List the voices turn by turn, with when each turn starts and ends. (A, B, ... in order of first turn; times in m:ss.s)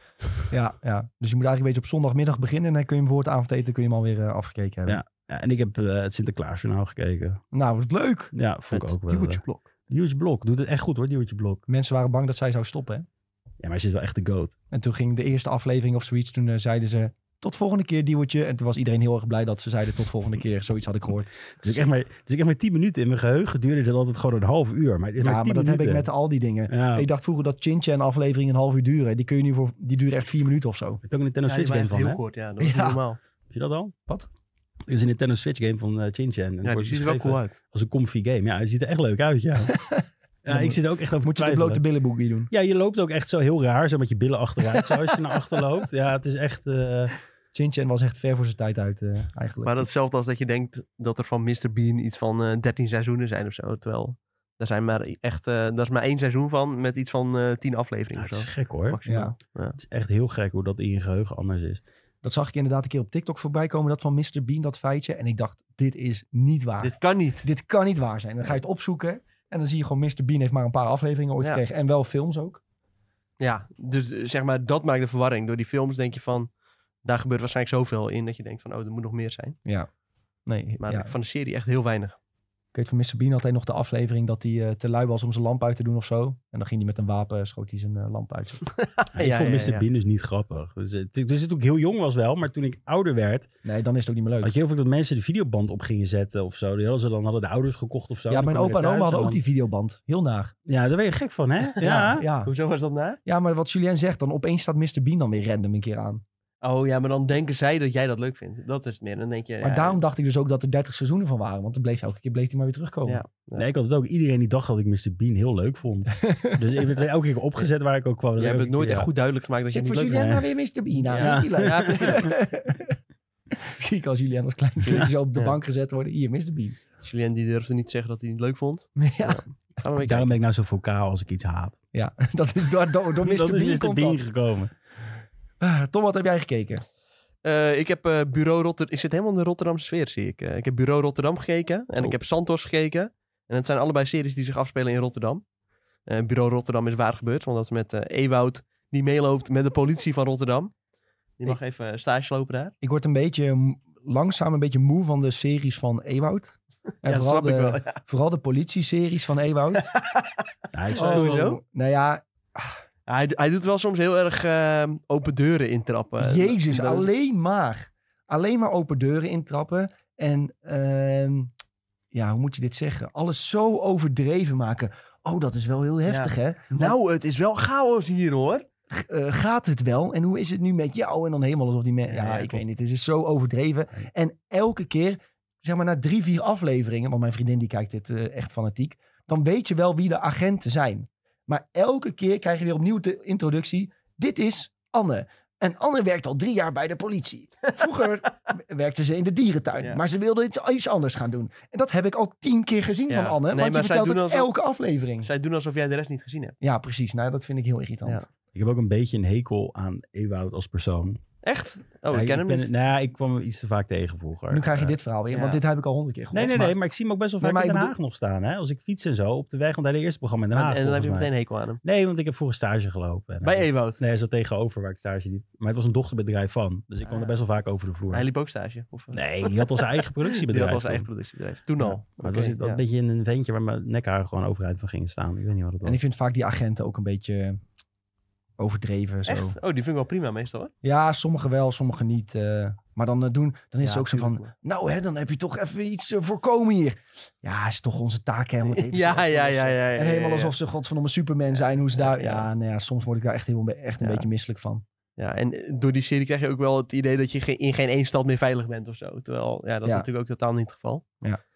0:00.5-0:05.0 A
0:04.9-0:07.4 B
0:07.5-0:08.3 A
0:08.3-0:11.6 B
0:08.7-0:09.6 C
0:11.7-0:13.0 A
0:13.6-0:14.5 B
0:14.7-0:21.3 A
0:21.6-0:26.1 B
0:25.2-0:31.0 A
0:26.7-0:27.1 B
0:31.0-0:32.2 B
0:31.5-0:33.2 C
0:32.6-0:33.0 A
0:33.5-0:33.9 B
0:34.9-0:39.7 B
0:36.6-0:37.6 C
0:39.7-0:42.5 A
0:40.4-0:41.8 B
0:42.5-0:47.1 B
0:47.5-0:49.9 A
0:49.6-0:59.8 C
0:58.1-0:59.0 B
0:59.0-0:59.3 A
0:59.8-1:01.8 B
1:02.2-1:12.6 A
1:06.8-1:07.4 C
1:13.4-1:16.5 C
1:17.0-1:19.6 C
1:20.5-1:21.1 A
1:20.8-1:22.2 C
1:22.7-1:28.7 A
1:29.0-1:29.8 C
1:29.1-1:33.5 B
1:33.6-1:34.5 A
1:34.4-1:39.4 B
1:38.3-1:40.5 A
1:40.6-1:42.2 B
1:41.8-1:42.5 A
1:42.4-1:43.2 C
1:43.2-1:46.2 A
1:46.6-1:50.0 C
1:49.6-1:53.2 A
1:53.1-1:53.6 C
1:53.6-1:59.1 B
1:56.2-1:56.6 A
1:58.4-2:00.4 C
1:59.7-2:03.0 A
2:00.0-2:00.4 B
2:01.0-2:02.3 C
2:01.2-2:02.3 B
2:03.6-2:06.8 A
2:04.9-2:05.6 C
2:07.0-2:10.3 C
2:09.0-2:09.4 A
2:10.0-2:11.8 B
2:11.9-2:14.2 A
2:13.2-2:14.7 B
2:15.6-2:16.8 A
2:17.4-2:25.4 C
2:26.1-2:30.7 C
2:31.4-2:32.7 C
2:32.8-2:39.9 A
2:37.0-2:38.0 C
2:39.9-2:40.3 C
2:40.7-2:41.4 B
2:40.9-2:41.6 C
2:40.9-2:42.7 A
2:43.1-2:47.1 C
2:46.2-2:51.5 A
2:52.1-2:56.9 A
2:56.1-2:58.6 C
2:58.9-3:25.3 A
3:02.1-3:02.6 C
3:23.1-3:24.5 C
3:25.2-3:26.6 C
3:26.6-3:28.2 A
3:28.5-3:31.2 B
3:31.4-3:32.7 C
3:32.1-3:34.9 B
3:34.5-3:36.8 A
3:35.3-3:35.6 C
3:36.3-3:41.3 B
3:37.4-3:37.9 A
3:40.5-3:41.8 C
3:41.8-3:48.3 B
3:43.4-3:44.0 C
3:47.1-3:47.4 C
3:48.1-3:52.8 C
3:49.1-3:51.1 B
3:52.2-3:56.0 B
3:55.8-3:57.6 A
3:58.6-3:59.6 A
3:59.3-4:00.7 C
4:00.8-4:14.8 A
4:03.8-4:04.5 C
4:08.7-4:10.5 C
4:11.6-4:12.5 C
4:14.0-4:14.2 C
4:15.2-4:21.0 C